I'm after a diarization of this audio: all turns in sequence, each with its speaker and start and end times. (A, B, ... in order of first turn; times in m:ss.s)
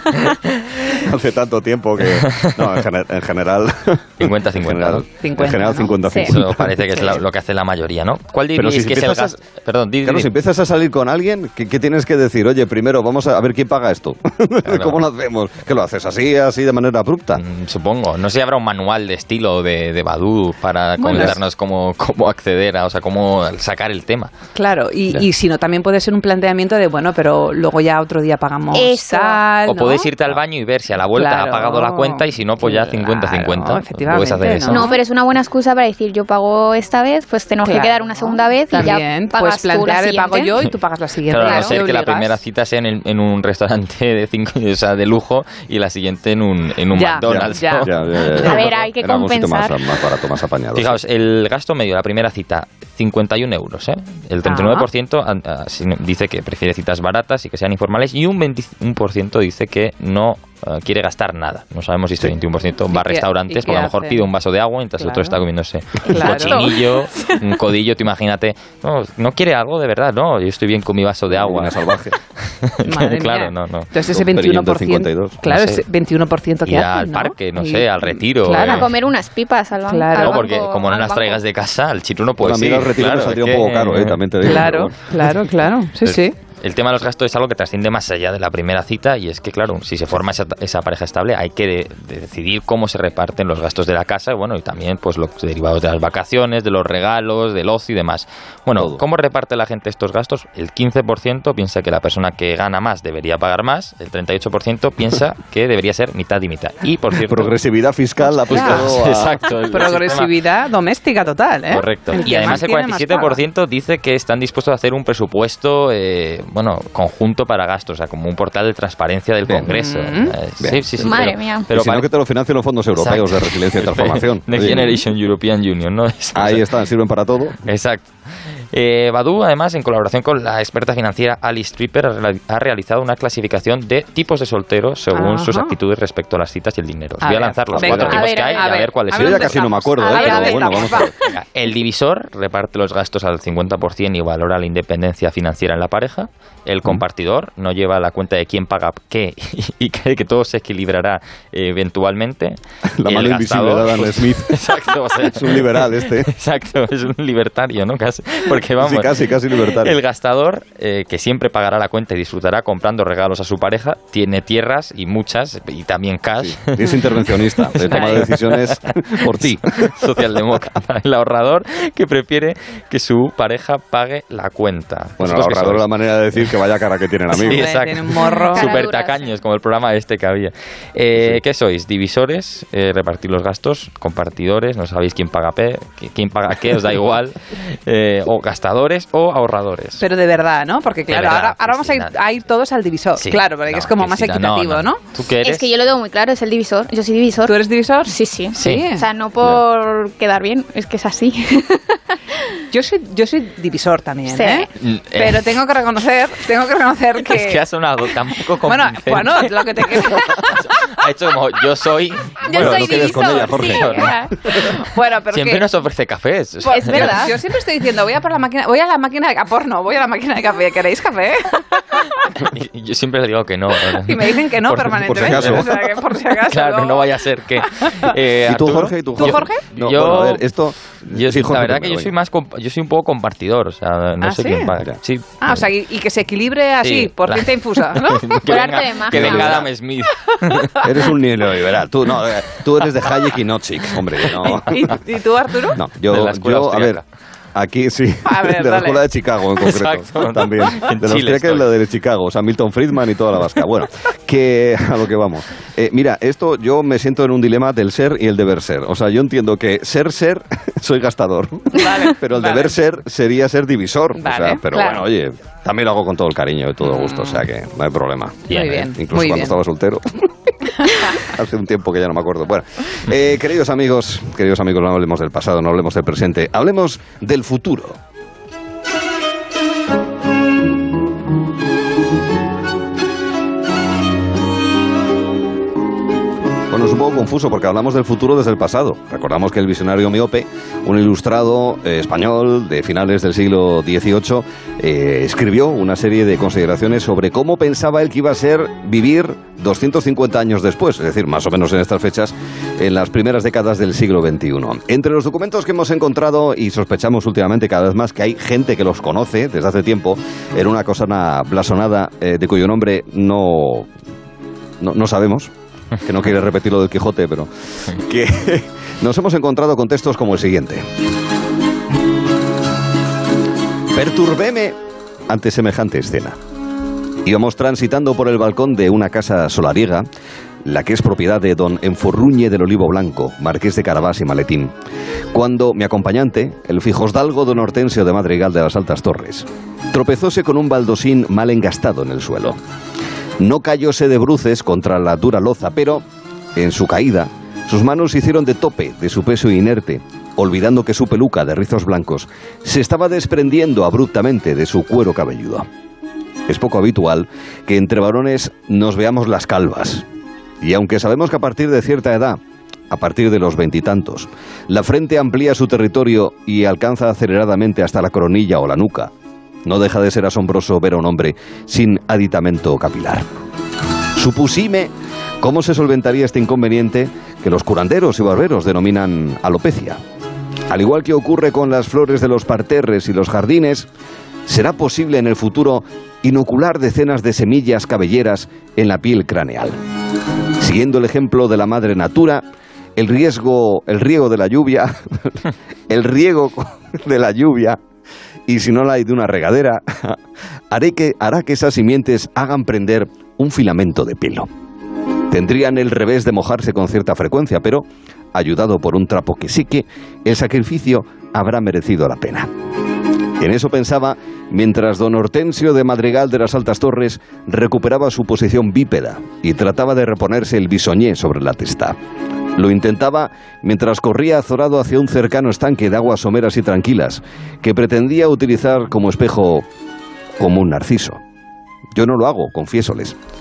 0:00.9-0:07.2 A
0:02.3-0:02.8 B
0:04.2-0:05.0 B
0:05.2-0:06.3 C
0:06.2-0:10.3 B
0:08.5-0:09.4 A
0:10.0-0:17.4 A
0:14.6-0:15.0 B
0:17.4-0:24.3 B
0:21.0-0:21.4 C
0:24.5-0:30.1 C
0:28.7-0:29.4 D
0:29.6-0:34.9 B
0:31.1-0:35.0 C
0:34.7-0:40.5 D
0:37.6-0:42.4 C
0:41.3-0:48.0 B
0:41.4-0:41.8 D
0:46.9-0:48.6 C
0:47.2-0:51.0 A
0:48.4-0:49.9 D
0:50.7-1:11.8 B
0:54.4-0:54.9 C
1:02.9-1:04.3 C
1:05.0-1:05.4 C
1:06.0-1:07.4 C
1:06.1-1:06.7 D
1:11.3-1:12.1 A
1:12.4-1:13.9 B
1:12.8-1:18.9 C
1:14.1-1:15.4 A
1:15.4-1:15.8 B
1:16.6-1:18.9 B
1:18.6-1:21.4 D
1:19.9-1:20.4 C
1:20.2-1:24.5 B
1:22.4-1:25.0 A
1:24.4-1:26.4 C
1:26.6-1:47.6 B
1:38.8-1:39.0 A
1:47.2-1:49.4 A
1:48.4-1:48.9 C
1:48.5-1:50.3 B
1:49.7-1:53.4 C
1:51.7-2:02.1 B
1:59.4-1:59.7 A
1:59.7-2:00.4 C
2:01.0-2:01.6 D
2:01.7-2:05.0 A
2:03.0-2:06.7 B
2:06.3-2:07.6 A
2:07.6-2:19.6 B
2:15.1-2:15.7 C
2:17.2-2:21.1 C
2:17.7-2:18.2 A
2:18.0-2:21.0 D
2:19.1-2:21.1 A
2:20.1-2:20.6 B
2:21.3-2:56.4 B
2:33.0-2:34.6 A
2:35.2-2:36.3 A
2:38.8-2:40.0 A
2:46.4-2:50.0 A
2:47.9-2:48.2 C
2:55.2-2:57.7 A
2:57.3-3:10.0 B
2:57.4-2:58.7 C
2:58.3-2:59.3 D
3:10.0-3:15.0 C
3:11.1-3:12.2 B
3:13.2-3:15.6 B
3:15.4-3:22.6 D
3:17.5-3:19.0 C
3:18.6-3:18.9 B
3:22.7-3:27.6 C
3:24.3-3:24.7 D
3:24.8-3:25.6 B
3:27.3-3:34.1 B
3:28.6-3:30.7 C
3:32.4-3:34.3 D
3:32.5-3:34.3 A
3:34.5-3:35.6 C
3:35.3-3:37.2 B
3:36.6-3:42.4 C
3:36.7-3:37.3 D
3:42.4-3:45.8 B
3:44.0-3:47.1 C
3:45.1-3:45.7 A
3:46.5-3:50.5 B
3:47.7-3:48.1 C
3:48.4-3:52.1 A
3:48.6-3:49.6 C
3:51.0-3:55.6 B
3:54.2-3:54.8 C
3:55.4-3:58.4 C
3:56.8-4:00.8 B
3:58.4-3:59.6 D
3:59.1-3:59.6 A
4:00.8-4:05.0 A
4:04.5-4:05.8 C
4:05.7-4:07.0 A
4:06.1-4:07.0 B
4:07.5-4:30.0 A
4:08.3-4:09.0 C
4:09.6-4:11.7 B
4:21.8-4:22.8 C
4:24.2-4:25.0 C
4:26.8-4:27.4 C
4:28.5-4:28.9 B
4:28.5-4:29.6 C
4:30.8-4:31.2 C
4:31.2-4:38.0 A
4:46.7-5:13.9 A
5:14.8-5:15.5 A
5:16.0-5:20.8 A
5:23.9-5:24.8 A
5:25.3-5:26.4 A
5:27.2-5:30.0 A
5:30.6-5:34.7 A
5:35.3-5:42.6 A
5:43.4-5:46.0 A
5:46.6-5:55.6 A
5:56.5-6:00.0 A
6:00.6-6:09.1 A
6:09.6-6:13.2 A
6:14.1-6:20.0 A
6:20.7-6:23.9 A
6:24.4-6:29.8 A
6:30.6-6:32.4 A
6:33.0-6:37.8 A
6:38.5-6:40.2 A
6:40.7-6:44.5 A
6:45.3-6:52.5 A
6:53.4-7:02.0 A
7:02.6-7:09.6 A
7:10.4-7:11.2 A
7:11.9-7:13.2 A